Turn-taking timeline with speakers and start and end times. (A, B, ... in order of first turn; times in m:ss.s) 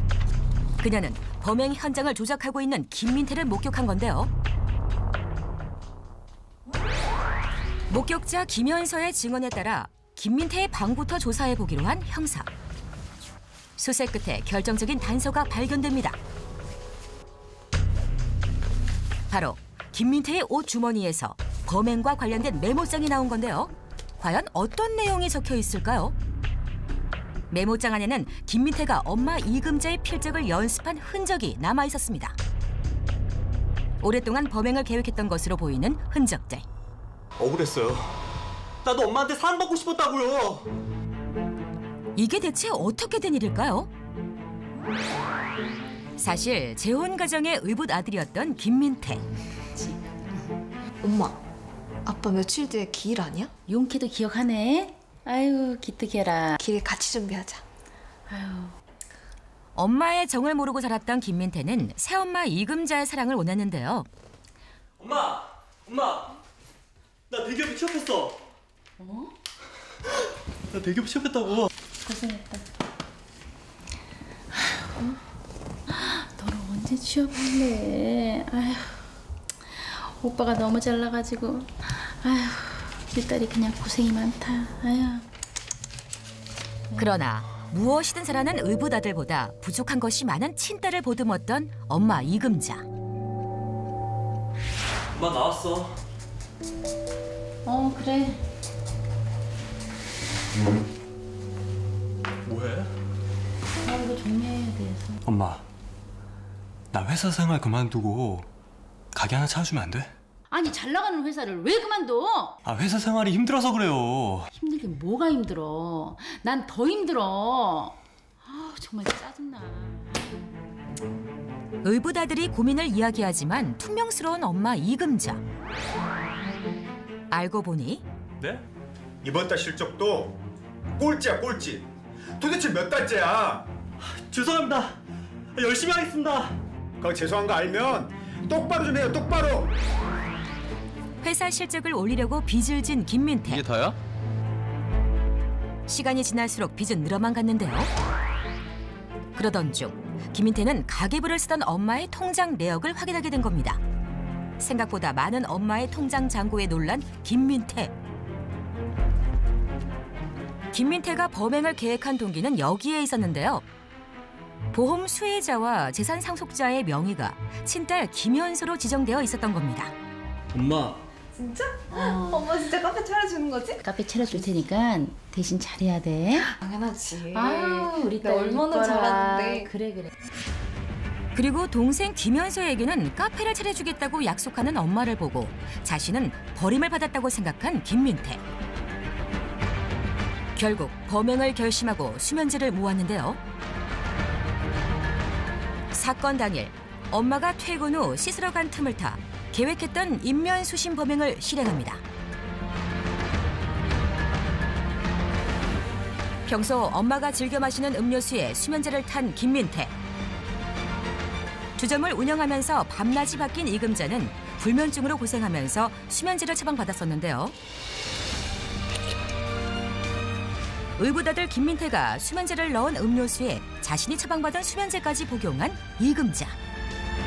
0:00.8-0:04.3 A
0:07.9-0:12.5 A
0:13.8-0:16.2 A
0:19.3-0:26.1 A
0:27.5-0:32.4 A
0:34.0-0:36.6 A
0:37.4-0:38.2 B
0:38.8-0:40.7 B
0:42.2-0:43.9 A
0:46.2-0:49.2 A
0:51.0-0:51.4 C
0:52.0-0:53.5 C
0:53.7-0:56.6 D
0:56.6-0:57.6 C
0:58.3-0:58.7 D
0:59.7-1:04.1 A
1:05.0-1:06.4 B
1:07.3-1:08.4 B
1:09.0-1:09.3 D
1:10.7-1:11.7 B
1:12.0-1:12.6 D
1:15.9-1:19.0 D
1:19.7-1:25.2 D
1:26.9-1:32.8 A
1:35.1-1:36.0 B
1:37.6-1:38.4 D
1:42.4-1:42.9 B
1:43.8-1:45.2 D
1:45.2-1:45.6 B
1:46.9-1:48.5 B
1:49.1-1:50.1 B
1:50.5-1:52.5 D
1:52.6-1:54.5 B
1:54.5-2:00.2 D
2:01.8-2:05.4 A
2:07.3-2:08.0 A
2:09.2-2:10.4 E
2:11.0-2:11.8 E
2:12.4-2:13.7 E
2:14.0-2:15.0 B
2:15.5-2:16.6 B
2:17.0-2:19.7 E
2:21.2-2:23.7 A
2:23.6-2:23.9 B
2:25.9-2:27.9 A
2:29.3-2:33.8 A
2:34.6-2:37.9 A
2:40.7-2:43.6 A
2:44.7-2:49.9 A
2:50.5-2:51.0 B
2:51.3-2:54.6 C
2:51.9-2:52.5 D
2:53.8-2:56.5 D
2:56.3-2:59.7 C
2:57.3-3:00.1 D
3:01.3-3:08.4 A
3:10.6-3:13.4 A
3:15.9-3:22.0 A
3:26.4-3:29.9 A
3:31.8-3:37.5 A
3:41.0-3:46.6 A